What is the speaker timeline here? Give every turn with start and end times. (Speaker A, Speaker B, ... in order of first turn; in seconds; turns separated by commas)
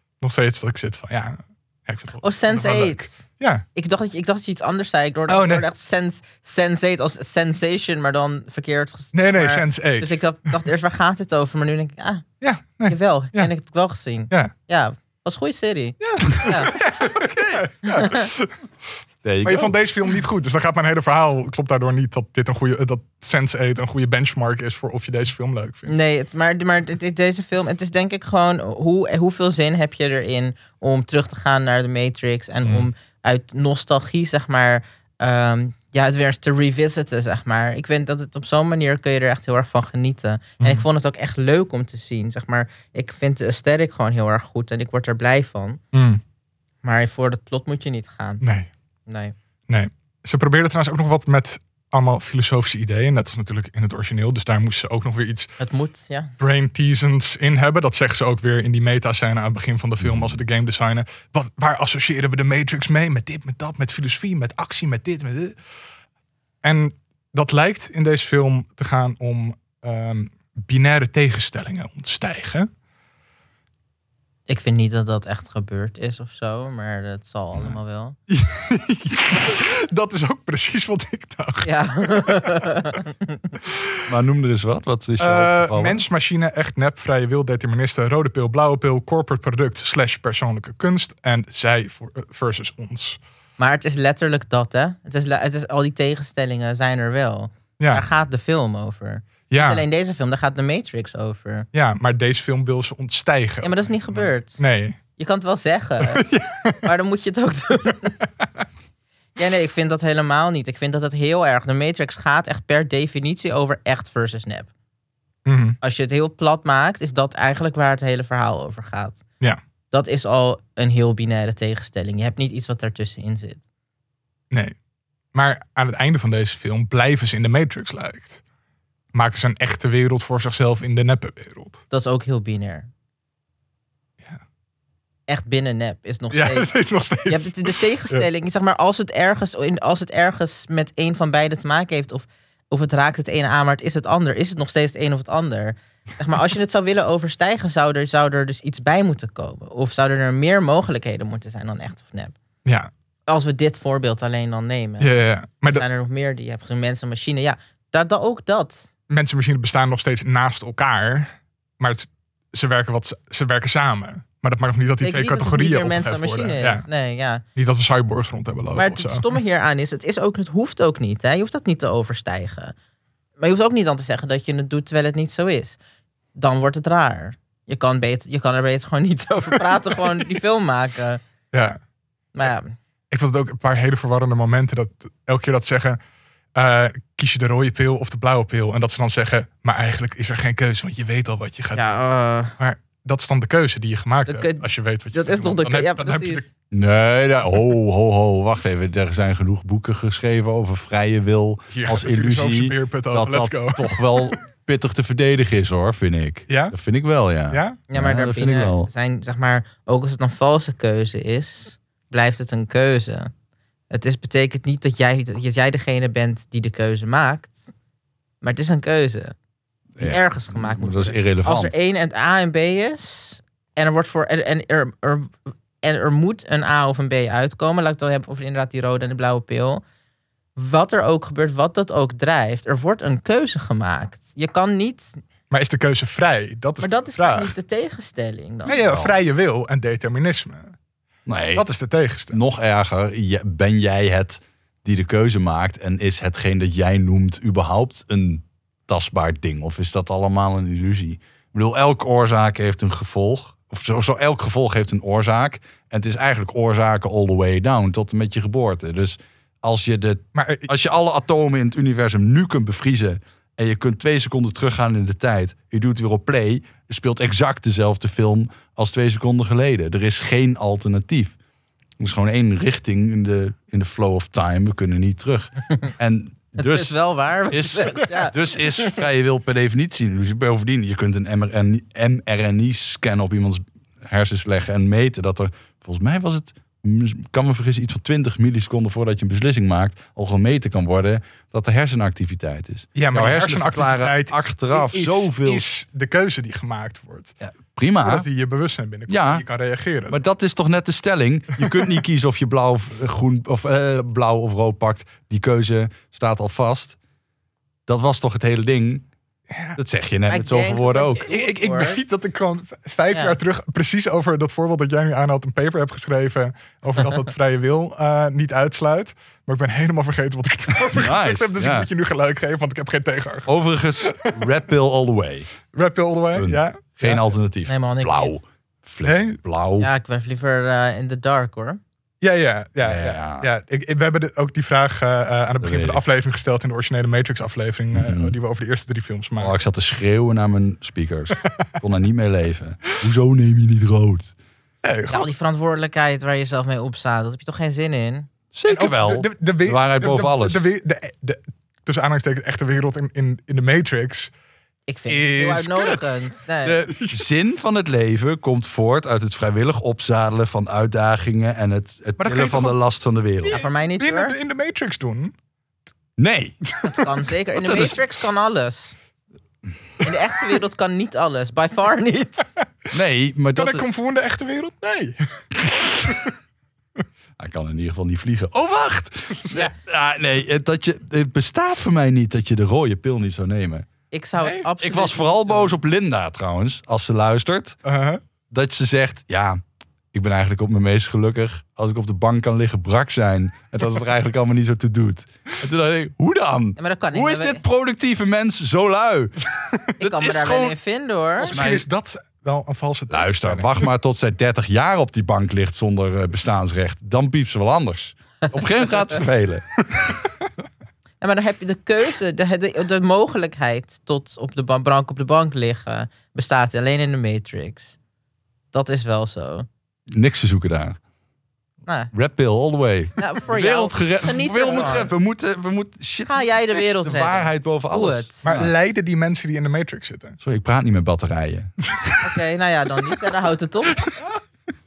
Speaker A: 0.2-3.6, Speaker B: 2.2-12.2, Speaker A: 5.3-5.6, Speaker A: 9.1-10.2, Speaker A: 12.4-13.5, Speaker B: 12.9-16.8, Speaker A: 16.0-18.5, Speaker C: 17.1-17.6, Speaker B: 17.9-18.3, Speaker C: 19.2-19.8, Speaker A: 19.4-25.9, Speaker B: 25.9-45.8, Speaker A: 45.9-46.2, Speaker B: 46.8-48.4, Speaker A: 48.4-48.7, Speaker B: 49.1-49.3, Speaker A: 49.7-55.5, Speaker B: 55.6-56.3, Speaker A: 56.4-65.6, Speaker C: 60.0-60.4, Speaker A: 66.6-72.7, Speaker B: 74.5-78.2, Speaker A: 78.3-82.6, Speaker B: 81.6-83.4, Speaker C: 84.0-86.0, Speaker A: 85.2-93.2, Speaker B: 93.6-101.7, Speaker A: 97.8-98.0, Speaker A: 99.5-99.8, Speaker A: 101.7-105.0, Speaker B: 103.6-104.6, Speaker B: 105.2-106.2, Speaker A: 106.1-106.8, Speaker B: 106.8-108.2, Speaker B: 109.3-114.7, Speaker A: 115.5-115.8, Speaker B: 115.8-119.2, Speaker B: 119.9-123.6, Speaker A: 125.3-128.4, Speaker A: 129.1-131.8, Speaker B: 131.9-132.9, Speaker B: 135.3-136.7, Speaker A: 136.3-138.2, Speaker B: 137.3-152.3, Speaker A: 152.6-152.9, Speaker B: 153.3-155.1, Speaker A: 155.0-155.8, Speaker B: 155.7-158.9, Speaker A: 159.1-166.8, Speaker B: 165.0-167.4, Speaker A: 167.6-169.2, Speaker B: 168.7-172.7, Speaker B: 173.4-175.8, Speaker B: 176.3-181.2, Speaker A: 181.5-181.8, Speaker B: 182.3-182.8, Speaker A: 183.1-186.0, Speaker A: 186.5-191.9, Speaker B: 191.7-192.5, Speaker A: 192.6-196.5, Speaker B: 194.2-196.4, Speaker C: 196.7-208.9, Speaker A: 201.7-204.3, Speaker A: 206.5-206.7, Speaker A: 207.5-207.8, Speaker B: 207.9-213.3, Speaker B: 213.9-217.7, Speaker B: 218.4-219.3, Speaker C: 220.0-221.7, Speaker B: 220.0-229.8, Speaker B: 230.6-235.2, Speaker A: 235.5-237.5, Speaker B: 236.8-238.8, Speaker A: 238.7-240.7, Speaker C: 238.8-239.2, Speaker C: 241.2-241.7, Speaker A: 241.5-242.4, Speaker C: 242.3-271.4, Speaker A: 260.3-260.7, Speaker C: 272.0-276.9, Speaker B: 276.6-278.4, Speaker C: 277.5-295.6, Speaker A: 292.9-297.4, Speaker C: 297.4-298.3, Speaker A: 298.0-300.2, Speaker C: 299.1-299.4, Speaker C: 300.1-307.0, Speaker C: 307.9-309.1, Speaker A: 309.5-309.8, Speaker C: 309.8-311.2, Speaker B: 310.3-312.0, Speaker A: 311.2-324.4, Speaker C: 320.8-321.9, Speaker C: 323.4-325.5, Speaker A: 325.7-327.3, Speaker C: 326.3-329.9, Speaker B: 327.6-328.4, Speaker A: 329.0-329.4, Speaker B: 329.8-331.8, Speaker A: 332.2-339.6, Speaker C: 332.8-333.5, Speaker C: 335.6-336.0, Speaker C: 337.9-338.3, Speaker C: 339.4-344.3, Speaker A: 344.8-345.3, Speaker B: 345.1-348.3, Speaker C: 348.5-350.6, Speaker A: 348.7-354.3, Speaker B: 354.9-356.8, Speaker A: 355.1-356.3, Speaker C: 356.6-363.6, Speaker A: 357.0-357.2, Speaker A: 362.2-362.8, Speaker A: 363.5-365.3, Speaker B: 363.5-364.3, Speaker C: 366.2-366.6, Speaker B: 366.8-368.9, Speaker C: 367.5-368.0, Speaker B: 370.0-372.5, Speaker C: 372.9-373.9, Speaker A: 373.5-376.3, Speaker C: 377.4-383.9, Speaker A: 379.4-379.7, Speaker B: 384.1-385.8, Speaker C: 384.7-387.8, Speaker A: 387.8-388.2, Speaker C: 388.5-389.6, Speaker C: 390.1-399.4, Speaker B: 396.8-397.6, Speaker C: 400.0-400.8, Speaker B: 400.0-401.5, Speaker A: 401.4-403.8, Speaker C: 401.4-401.9, Speaker C: 403.1-410.1, Speaker B: 411.2-418.0, Speaker B: 418.7-419.7, Speaker C: 420.1-421.0, Speaker C: 422.1-428.7, Speaker B: 423.2-425.0, Speaker B: 426.3-428.5, Speaker A: 428.4-430.4, Speaker C: 430.4-431.7, Speaker A: 431.9-432.2, Speaker B: 432.2-434.1